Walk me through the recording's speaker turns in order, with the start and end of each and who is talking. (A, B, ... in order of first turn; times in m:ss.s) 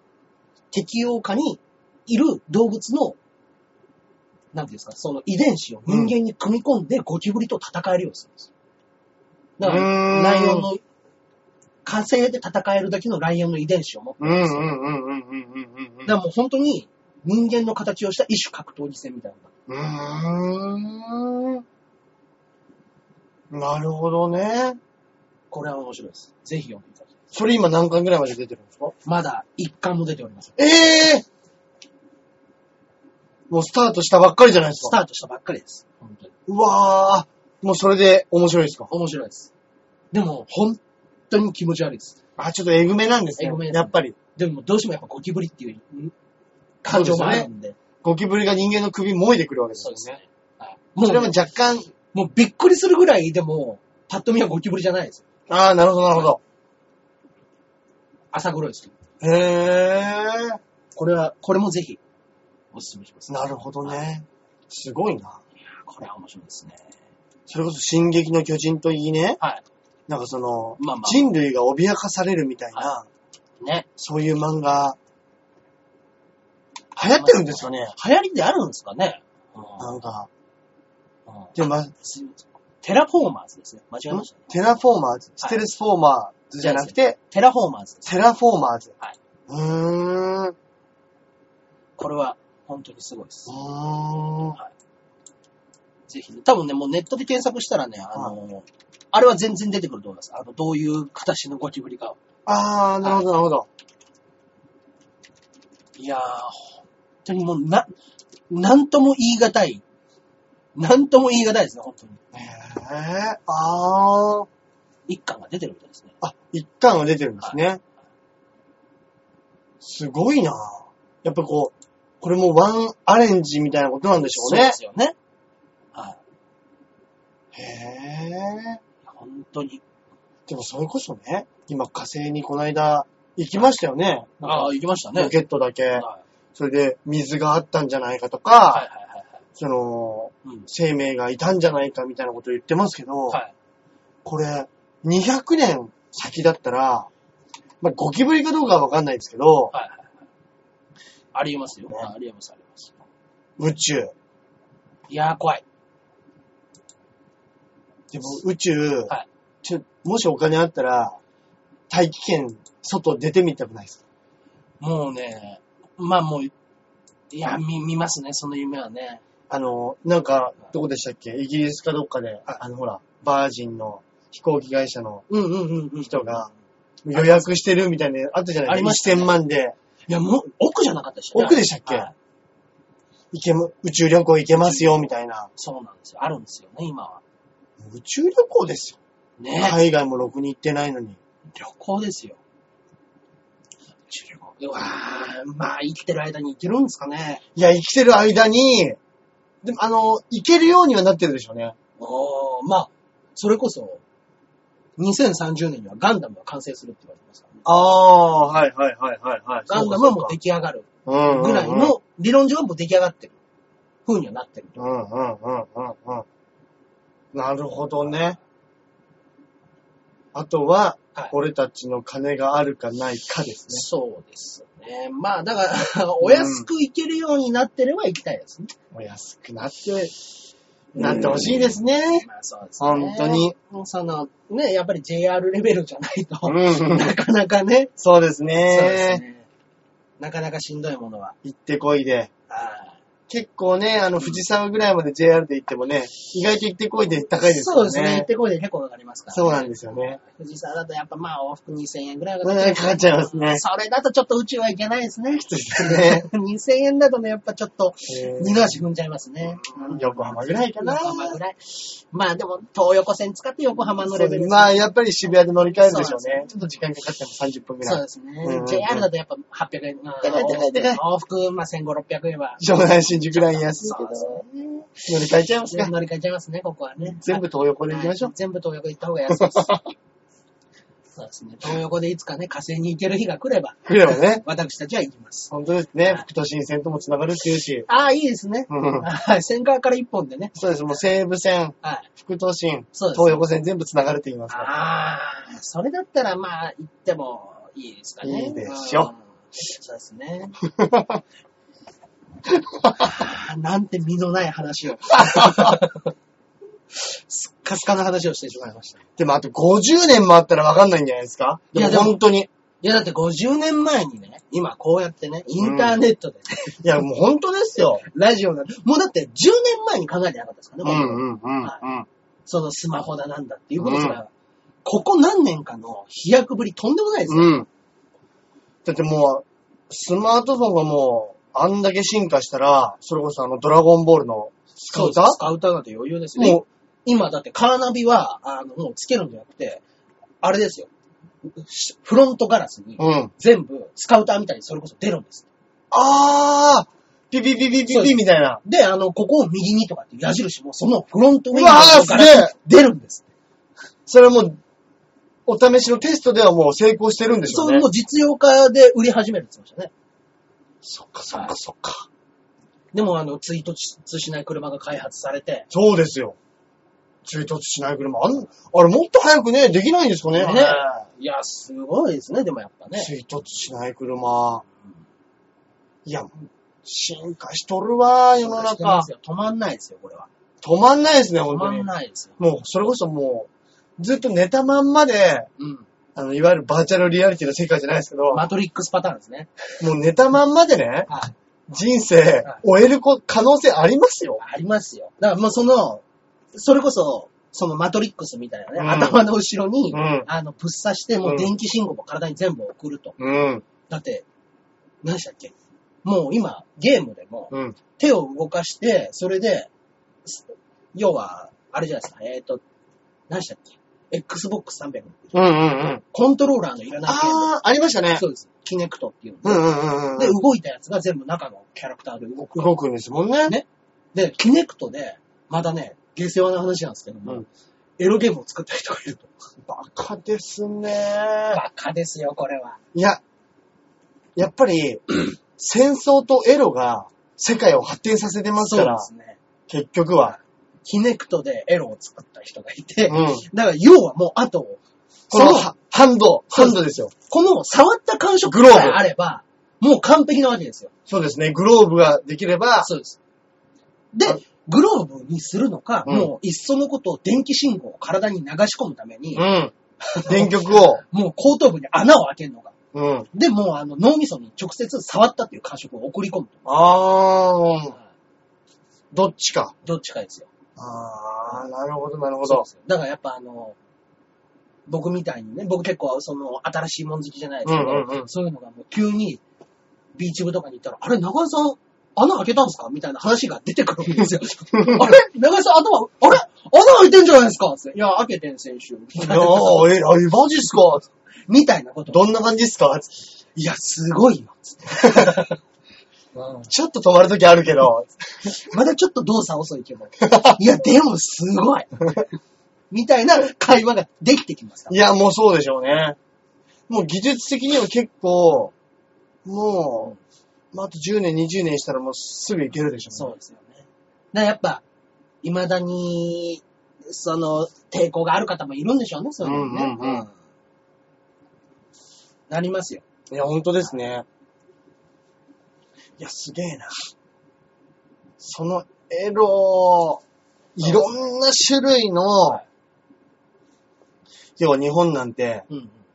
0:00.7-0:03.2 A
0:04.5-0:08.5 A
0:05.9-0:06.1 B
0:09.6-0:10.8 A
0:09.6-0:10.7 B
0:11.8-0:14.8 A
0:14.2-0:16.1 B
0:16.0-0:19.5 A
0:19.7-0:21.6 B
0:23.5-0:24.8 B
0:25.5-0:27.1 A
0:27.3-0:28.9 B
0:29.0-0:30.7 A
0:30.6-0:31.2 B
0:33.5-0:34.9 B
0:34.8-0:36.3 A
0:36.5-0:38.9 B
0:38.9-0:39.5 A
0:40.1-0:42.2 A
0:42.4-0:44.2 B
0:43.4-0:46.1 A
0:46.8-0:47.8 A
0:46.9-0:47.5 B
0:48.0-0:50.1 B
0:49.8-0:51.3 A
0:51.0-0:51.9 B
0:52.1-0:55.2 A
0:55.5-0:56.4 B
0:58.3-0:58.9 A
0:59.2-1:00.6 B
1:00.9-1:02.0 A
1:02.7-1:04.0 A
1:03.3-1:05.4 B
1:05.7-1:06.8 A
1:07.5-1:09.4 B
1:10.1-1:13.1 B
1:10.8-1:11.3 A
1:13.6-1:13.9 A
1:14.0-1:15.0 B
1:16.9-1:17.9 B
1:17.2-1:20.0 A
1:19.8-1:20.3 B
1:21.3-1:24.5 A
1:21.5-1:21.9 B
1:24.1-1:27.2 B
1:26.6-1:28.1 A
1:28.0-1:28.9 B
1:29.5-1:30.5 B
1:32.0-1:33.5 A
1:33.5-1:34.6 B
1:36.1-1:42.2 A
1:42.4-1:43.7 B
1:46.0-1:47.9 A
1:48.5-1:49.8 A
1:50.7-1:52.2 A
1:52.3-1:54.5 B
1:55.1-1:56.1 A
1:56.2-1:57.8 B
1:59.8-2:04.8 B
2:04.2-2:05.2 A
2:07.5-2:08.8 B
2:09.0-2:09.8 A
2:10.5-2:18.9 B
2:14.4-2:15.3 A
2:15.9-2:16.2 A
2:18.7-2:19.3 A
2:19.6-2:23.4 B
2:24.2-2:27.1 B
2:27.8-2:29.7 B
2:29.7-2:30.0 A
2:31.3-2:33.0 A
2:33.6-2:34.1 B
2:35.1-2:35.6 A
2:38.1-2:41.2 B
2:41.9-2:44.0 B
2:44.8-2:46.5 A
2:47.3-2:49.2 A
2:49.5-2:55.2 B
2:55.3-2:56.5 A
2:56.0-2:56.5 B
2:57.0-2:59.8 B
2:57.1-2:57.5 A
2:58.6-2:59.4 A
3:00.1-3:02.1 A
3:01.3-3:02.1 B
3:03.3-3:05.5 B
3:04.5-3:07.2 A
3:07.8-3:09.0 B
3:09.4-3:09.8 A
3:09.6-3:11.2 B
3:11.5-3:12.4 A
3:14.1-3:17.4 A
3:17.5-3:19.0 B
3:19.6-3:21.8 B
3:22.0-3:24.0 A
3:25.0-3:27.7 A
3:27.6-3:30.4 B
3:29.7-3:33.4 A
3:31.0-3:32.0 B
3:34.0-3:34.8 A
3:34.8-3:36.2 B
3:37.3-3:38.4 B
3:40.3-3:43.8 B
3:43.7-3:48.7 A
3:46.2-3:46.7 B
3:48.9-3:50.1 B
3:50.9-3:52.2 B
3:51.0-3:51.6 A
3:52.2-3:57.9 A
3:52.8-3:53.5 B
3:56.4-3:57.1 B
3:58.0-3:59.2 B
3:58.7-3:59.5 A
4:00.2-4:01.4 A
4:01.4-4:02.3 B
4:02.5-4:03.0 A
4:03.3-4:08.3 B
4:07.4-4:24.9 A
4:09.3-4:10.2 B
4:12.4-4:13.6 B
4:15.4-4:16.3 B
4:18.1-4:18.8 B
4:19.6-4:21.4 B
4:24.1-4:29.1 B
4:25.8-4:26.5 A
4:27.8-4:35.0 A
4:30.2-4:31.0 B
4:32.6-4:34.4 B
4:35.0-4:35.9 B
4:35.6-4:39.7 A
4:37.2-4:38.3 B
4:39.3-4:39.9 B
4:41.2-4:45.5 A
4:43.8-4:44.4 B
4:45.5-4:47.9 B
4:47.8-4:50.6 A
4:48.7-4:49.0 B
4:50.5-4:54.7 B
4:51.8-4:52.1 A
4:52.9-4:53.4 A
4:54.5-5:00.6 A
4:58.2-4:59.1 B
5:00.6-5:01.2 B
5:02.5-5:03.1 B
5:03.0-5:06.1 A
5:05.1-5:05.8 B
5:06.9-5:09.0 A
5:09.2-5:12.5 B
5:11.7-5:12.2 A
5:12.8-5:16.8 A
5:15.6-5:16.0 B
5:16.8-5:18.0 B
5:18.0-5:21.8 A
5:20.8-5:22.1 B
5:22.4-5:24.3 A
5:23.8-5:24.2 B
5:24.8-5:27.7 A
5:27.3-5:27.7 B
5:28.8-5:35.4 B
5:34.9-5:39.8 A
5:36.4-5:36.6 B
5:40.4-5:40.9 A
5:41.4-5:45.5 A
5:43.0-5:43.3 B
5:45.9-5:48.6 B
5:47.9-5:53.3 A
5:51.5-5:52.5 B
5:54.1-5:54.6 B
5:55.4-5:57.8 B
5:57.5-5:59.9 A
6:00.8-6:02.1 B
6:02.9-6:05.7 A
6:05.7-6:06.4 B
6:07.2-6:11.0 B
6:10.3-6:13.1 A
6:13.0-6:14.6 B
6:16.0-6:19.1 B
6:18.4-6:20.3 A
6:20.6-6:21.9 B
6:21.5-6:22.4 A
6:22.4-6:25.5 B
6:25.6-6:25.8 A
6:26.2-6:28.4 B
6:28.3-6:29.5 A
6:29.8-6:31.1 B
6:31.1-6:31.3 A
6:31.7-6:34.4 B
6:34.4-6:36.0 A
6:36.5-6:43.2 A
6:38.8-6:39.2 B
6:39.9-6:40.3 B
6:41.2-6:41.5 B
6:43.2-6:43.6 B
6:43.9-6:44.2 A
6:45.0-6:49.7 A
6:47.5-6:47.8 B
6:50.2-6:52.6 A
6:53.3-6:55.5 A
6:55.3-6:56.0 B
6:56.1-6:57.5 A
6:57.0-6:58.2 B
6:58.1-7:02.8 A
6:59.4-7:00.4 B
7:02.5-7:03.6 B
7:03.4-7:07.5 A
7:08.0-7:09.3 A
7:09.6-7:11.6 B
7:11.5-7:12.8 A
7:12.9-7:13.2 B
7:14.4-7:19.1 B
7:18.6-7:19.4 A
7:19.7-7:20.4 B
7:20.2-7:24.8 A
7:23.1-7:23.4 B
7:25.3-7:25.7 A
7:25.3-7:27.1 B
7:26.5-7:30.9 A
7:28.5-7:29.0 B
7:31.1-7:32.9 B
7:32.8-7:33.2 A
7:34.1-7:39.5 A
7:36.0-7:36.3 B
7:39.3-7:39.7 B
7:40.0-7:42.7 A
7:40.2-7:41.0 B
7:42.9-7:43.3 B
7:43.3-7:46.6 A
7:46.6-7:48.0 B
7:49.1-7:49.7 B
7:49.8-7:50.5 A
7:50.8-7:52.6 B
7:52.4-7:53.8 A
7:54.9-7:59.4 A
7:57.6-7:58.3 B
8:00.1-8:09.9 A
8:04.7-8:05.1 B
8:09.2-8:11.1 B
8:11.5-8:12.2 A
8:12.1-8:13.1 B
8:13.5-8:15.6 A
8:16.4-8:18.6 B
8:18.6-8:22.1 A
8:20.2-8:20.6 B
8:22.9-8:25.0 A
8:24.9-8:26.2 B
8:26.9-8:28.7 B
8:29.4-8:30.1 B
8:30.7-8:33.3 B
8:33.1-8:34.8 A
8:35.4-8:40.3 A
8:39.4-8:40.3 B
8:42.5-8:43.0 A
8:43.3-8:44.2 B
8:46.2-8:46.9 B
8:48.4-8:50.2 B
8:50.8-8:52.6 B
8:54.6-8:55.7 B
8:55.7-8:56.0 A